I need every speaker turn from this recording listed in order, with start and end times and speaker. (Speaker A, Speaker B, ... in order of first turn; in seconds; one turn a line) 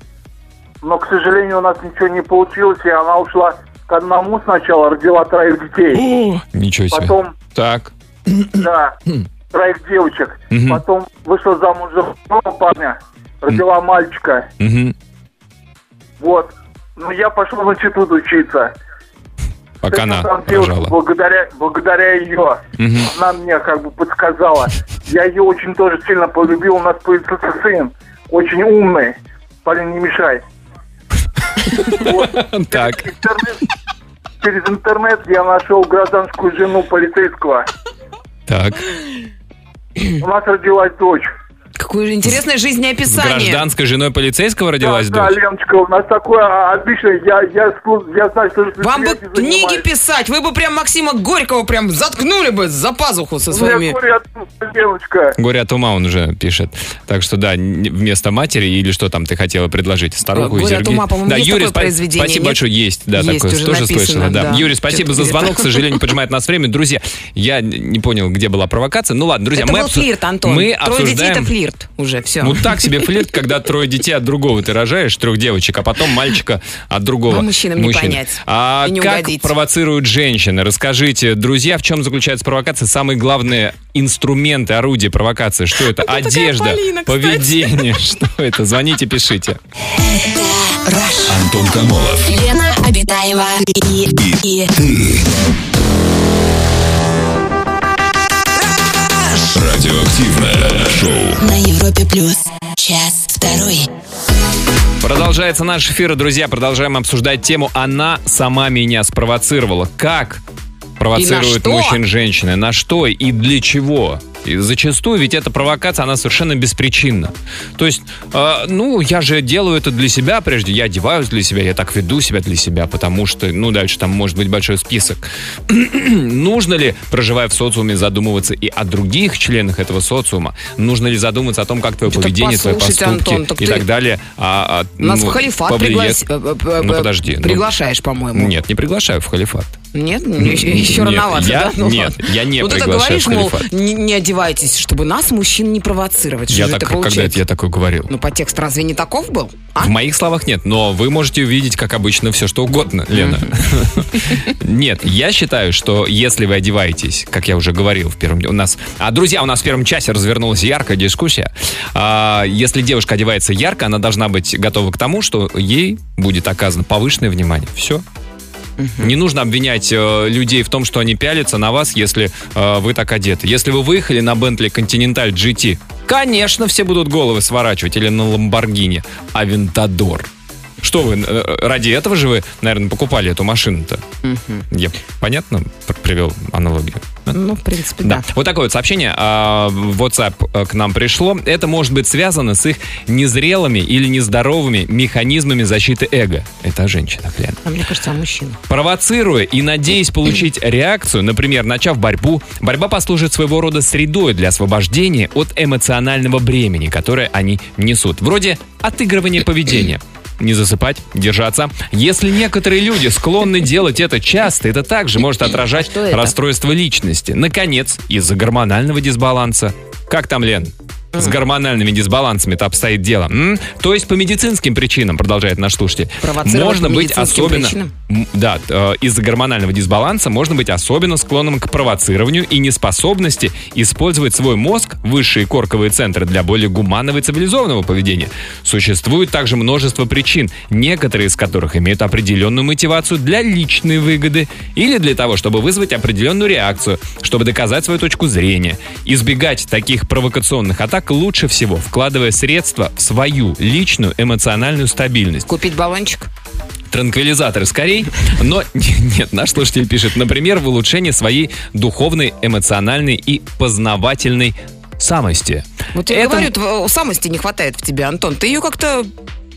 Speaker A: 0.8-6.1
Speaker B: 6.0-8.5
Speaker A: 6.9-7.3
Speaker A: 8.5-9.0
Speaker A: 9.5-14.5
Speaker B: 10.5-10.8
Speaker B: 14.6-14.9
Speaker A: 16.2-18.7
Speaker B: 19.8-20.9
Speaker A: 19.9-30.4
Speaker B: 22.8-23.1
Speaker A: 31.7-33.6
Speaker B: 31.7-33.1
Speaker A: 34.4-37.7
Speaker B: 38.5-38.9
Speaker A: 40.2-41.3
Speaker C: 41.8-43.6
Speaker B: 43.1-45.4
Speaker A: 44.8-49.9
Speaker C: 48.8-54.0
Speaker A: 53.5-55.4
Speaker B: 55.4-71.5
Speaker C: 60.3-62.6
Speaker C: 63.1-65.9
Speaker C: 69.6-72.9
Speaker B: 72.4-89.6
Speaker C: 77.3-79.5
Speaker C: 85.9-88.0
Speaker D: 90.0-91.4
Speaker E: 91.3-92.3
Speaker D: 92.2-94.7
Speaker E: 94.1-95.3
Speaker E: 99.3-101.4
Speaker D: 101.4-103.9
Speaker B: 105.0-110.4
Speaker B: 111.0-136.2
Speaker C: 111.2-112.0
Speaker C: 132.1-133.9
Speaker C: 135.0-138.5
Speaker B: 136.8-137.7
Speaker B: 138.3-139.8
Speaker C: 139.9-147.4
Speaker B: 140.4-143.7
Speaker B: 146.5-148.1
Speaker C: 148.1-149.9
Speaker B: 149.8-168.0
Speaker C: 153.1-153.5
Speaker C: 168.8-169.1
Speaker B: 169.0-180.3
Speaker B: 180.8-184.0
Speaker C: 184.2-184.7
Speaker B: 184.7-187.3
Speaker C: 187.3-188.3
Speaker B: 188.0-197.6
Speaker C: 197.6-198.6
Speaker B: 198.7-255.5
Speaker C: 215.8-216.3
Speaker C: 226.2-227.9
Speaker C: 255.5-256.3
Speaker B: 256.9-266.5
Speaker C: 265.9-269.1